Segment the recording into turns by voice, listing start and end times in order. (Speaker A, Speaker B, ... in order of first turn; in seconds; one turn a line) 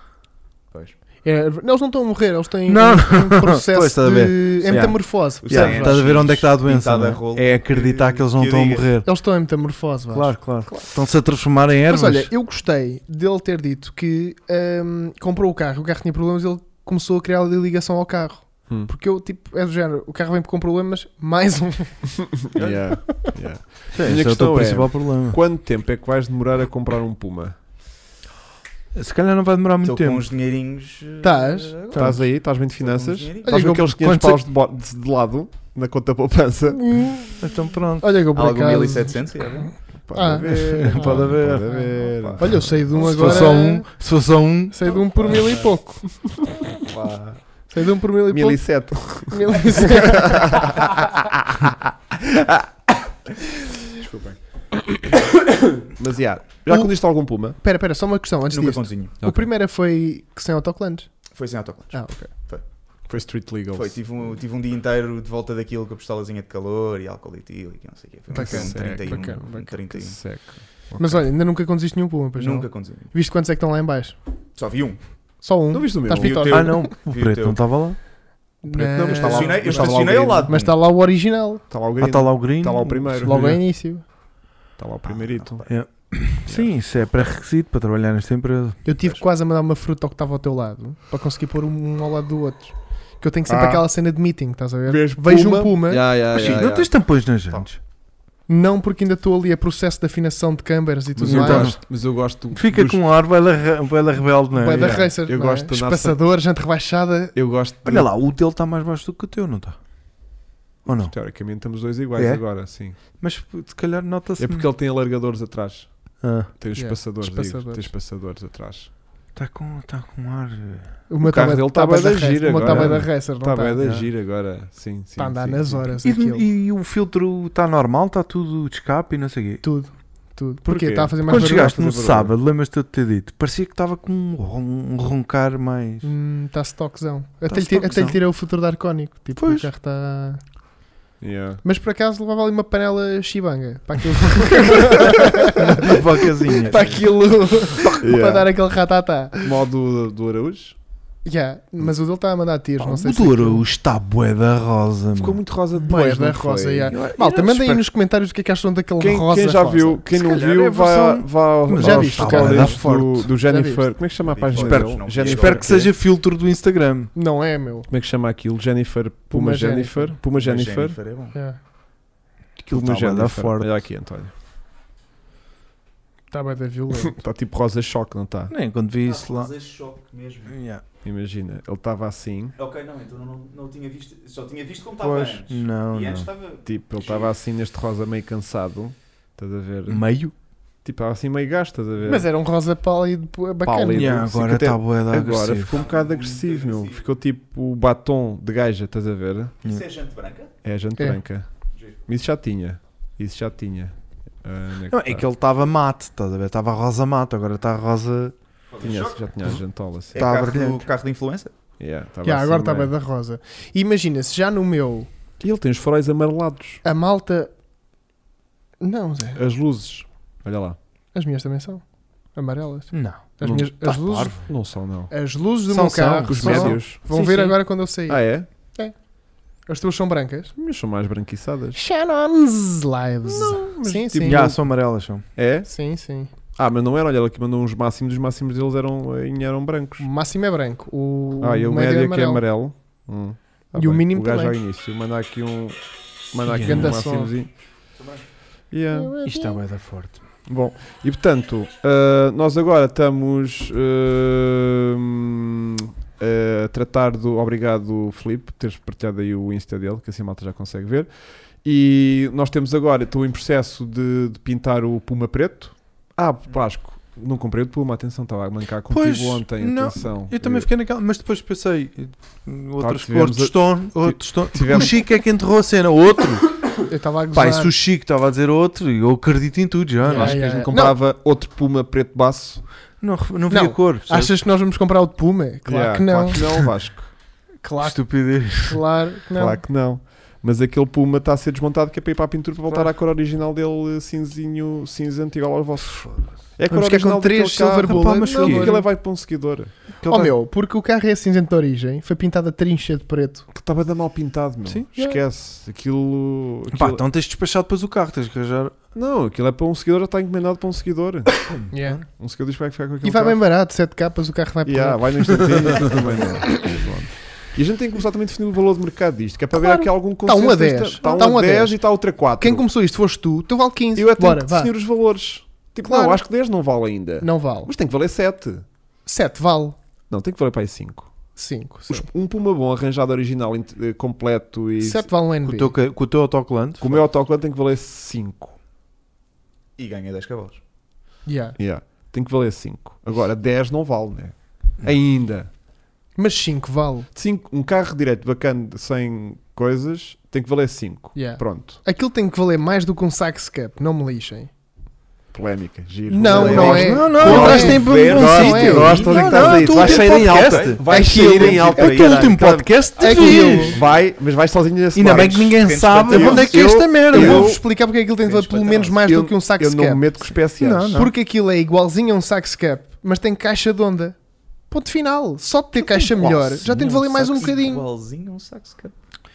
Speaker A: 1.2-6.0
Speaker B: 2.7-9.1
Speaker C: 5.4-8.9
Speaker A: 9.1-10.3
Speaker B: 10.1-12.3
Speaker A: 11.9-22.1
Speaker D: 22.4-27.6
Speaker C: 22.5-22.9
Speaker B: 23.9-25.4
Speaker B: 28.9-30.3
Speaker C: 29.8-33.6
Speaker A: 31.2-31.8
Speaker B: 31.9-32.2
Speaker D: 31.9-37.0
Speaker A: 33.4-34.0
Speaker B: 33.8-34.4
Speaker A: 36.8-37.4
Speaker B: 37.4-38.2
Speaker A: 38.0-43.9
Speaker C: 38.3-39.8
Speaker D: 40.1-42.8
Speaker B: 40.5-41.9
Speaker B: 42.9-44.9
Speaker A: 44.7-46.1
Speaker C: 46.8-47.4
Speaker A: 47.7-50.9
Speaker D: 48.3-50.9
Speaker D: 54.0-54.3
Speaker D: 55.8-57.6
Speaker A: 57.6-61.1
Speaker C: 58.5-59.2
Speaker D: 59.2-59.5
Speaker C: 61.4-62.6
Speaker A: 61.9-62.3
Speaker D: 63.1-64.0
Speaker C: 63.7-70.2
Speaker A: 68.3-69.8
Speaker D: 68.4-71.3
Speaker A: 71.0-74.2
Speaker C: 72.4-73.1
Speaker C: 74.6-75.0
Speaker A: 75.4-76.9
Speaker D: 75.7-76.6
Speaker C: 76.2-77.6
Speaker B: 76.5-78.0
Speaker A: 78.6-81.6
Speaker D: 78.7-80.5
Speaker C: 79.1-80.7
Speaker D: 81.7-83.6
Speaker B: 82.0-83.6
Speaker A: 83.2-84.0
Speaker D: 84.8-85.7
Speaker C: 85.0-85.7
Speaker B: 85.7-88.8
Speaker D: 86.5-86.7
Speaker A: 88.8-96.1
Speaker D: 93.5-93.9
Speaker D: 94.9-96.9
Speaker B: 96.3-97.8
Speaker C: 96.4-96.7
Speaker A: 98.5-101.7
Speaker D: 101.2-103.0
Speaker B: 101.2-101.9
Speaker B: 102.5-105.1
Speaker A: 104.6-107.3
Speaker D: 104.7-106.2
Speaker D: 107.3-108.1
Speaker B: 107.8-109.8
Speaker B: 110.8-111.2
Speaker D: 111.0-113.0
Speaker B: 112.2-114.7
Speaker D: 114.4-118.9
Speaker B: 116.2-116.5
Speaker A: 116.8-117.9
Speaker B: 119.3-121.0
Speaker A: 121.1-123.8
Speaker D: 121.2-126.0
Speaker B: 122.6-123.1
Speaker B: 123.8-124.1
Speaker A: 125.2-126.5
Speaker B: 126.0-129.6
Speaker A: 129.6-131.8
Speaker D: 130.7-132.3
Speaker B: 131.3-136.1
Speaker A: 136.0-140.4
Speaker B: 137.5-138.2
Speaker B: 139.4-139.7
Speaker D: 141.2-141.6
Speaker A: 141.6-149.5
Speaker B: 145.1-147.0
Speaker D: 148.0-148.5
Speaker D: 149.4-150.8
Speaker A: 151.2-153.7
Speaker B: 152.8-155.4
Speaker D: 155.2-157.1
Speaker A: 155.8-160.0
Speaker B: 156.9-157.8
Speaker D: 159.0-165.9
Speaker B: 160.1-163.3
Speaker A: 161.7-163.9
Speaker C: 164.2-165.9
Speaker B: 164.5-167.1
Speaker A: 167.2-167.9
Speaker D: 167.9-171.0
Speaker A: 169.3-170.2
Speaker C: 170.3-171.3
Speaker A: 171.3-171.6
Speaker D: 172.6-174.3
Speaker B: 172.7-173.8
Speaker A: 176.3-177.2
Speaker D: 176.9-178.5
Speaker B: 178.5-179.5
Speaker C: 179.1-180.6
Speaker B: 180.5-180.8
Speaker D: 181.0-182.6
Speaker C: 182.6-187.3
Speaker B: 185.0-186.3
Speaker D: 186.7-190.1
Speaker B: 189.9-190.3
Speaker D: 190.8-192.3
Speaker A: 192.0-194.1
Speaker D: 193.6-199.5
Speaker B: 193.9-195.7
Speaker C: 195.7-197.0
Speaker C: 199.6-200.5
Speaker D: 200.6-201.5
Speaker D: 202.0-205.3
Speaker B: 204.9-208.3
Speaker C: 208.7-209.2
Speaker D: 208.8-210.3
Speaker C: 210.1-211.5
Speaker B: 210.2-210.9
Speaker D: 211.8-212.9
Speaker A: 212.2-215.1
Speaker D: 215.4-216.8
Speaker A: 216.8-217.5
Speaker A: 218.8-219.4
Speaker D: 219.4-220.8
Speaker A: 221.1-224.4
Speaker B: 222.9-224.4
Speaker D: 223.4-223.7
Speaker D: 224.4-225.1
Speaker A: 225.1-228.9
Speaker B: 225.7-227.6
Speaker D: 226.3-227.0
Speaker D: 228.1-228.5
Speaker A: 229.7-230.5
Speaker D: 230.6-231.8
Speaker A: 231.8-234.5
Speaker D: 233.3-234.6
Speaker B: 234.2-235.2
Speaker D: 235.4-235.7
Speaker A: 235.7-236.3
Speaker D: 236.6-240.1
Speaker A: 240.0-242.4
Speaker D: 241.4-245.8
Speaker A: 243.8-244.6
Speaker D: 246.3-247.5
Speaker A: 246.5-247.3
Speaker B: 246.5-246.9
Speaker D: 248.7-249.2
Speaker A: 248.9-249.6
Speaker B: 249.2-250.2
Speaker D: 250.5-261.1
Speaker D: 261.6-270.7
Speaker B: 268.9-276.8
Speaker D: 272.8-275.0
Speaker A: 276.9-277.7
Speaker B: 277.3-280.7
Speaker A: 280.1-281.0
Speaker D: 280.1-282.6
Speaker B: 283.0-284.4
Speaker A: 283.5-286.7
Speaker D: 285.7-287.1
Speaker A: 287.6-289.6
Speaker B: 287.8-288.8
Speaker D: 289.3-299.7
Speaker A: 296.7-298.9
Speaker B: 297.8-298.7
Speaker B: 300.0-300.3
Speaker A: 300.1-303.5
Speaker D: 303.5-307.0
Speaker B: 306.7-308.8
Speaker D: 308.9-313.4
Speaker A: 311.7-312.0
Speaker A: 313.0-315.9
Speaker D: 314.6-322.7
Speaker A: 319.5-321.8
Speaker A: 322.4-324.7
Speaker D: 323.9-328.6
Speaker A: 325.8-326.2
Speaker A: 327.2-327.7
Speaker A: 329.1-329.8
Speaker D: 330.1-331.1
Speaker A: 331.4-332.1
Speaker D: 331.9-335.1
Speaker A: 334.8-335.8
Speaker B: 335.4-337.0
Speaker D: 336.8-338.6
Speaker C: 339.8-340.6
Speaker A: 341.3-341.6
Speaker D: 341.6-345.5
Speaker A: 346.2-347.1
Speaker D: 347.1-351.8
Speaker A: 351.1-354.5
Speaker D: 355.3-367.6
Speaker A: 356.1-359.6
Speaker C: 356.3-357.7
Speaker B: 356.4-363.8
Speaker C: 358.7-362.4
Speaker A: 360.9-361.6
Speaker A: 363.0-363.8
Speaker C: 363.0-364.0
Speaker B: 364.9-367.5
Speaker C: 365.1-366.7
Speaker A: 366.2-370.3
Speaker D: 368.2-371.0
Speaker B: 370.6-371.1
Speaker A: 370.9-374.2
Speaker A: 374.7-377.9
Speaker B: 375.8-377.3
Speaker D: 376.2-376.7
Speaker C: 377.3-378.9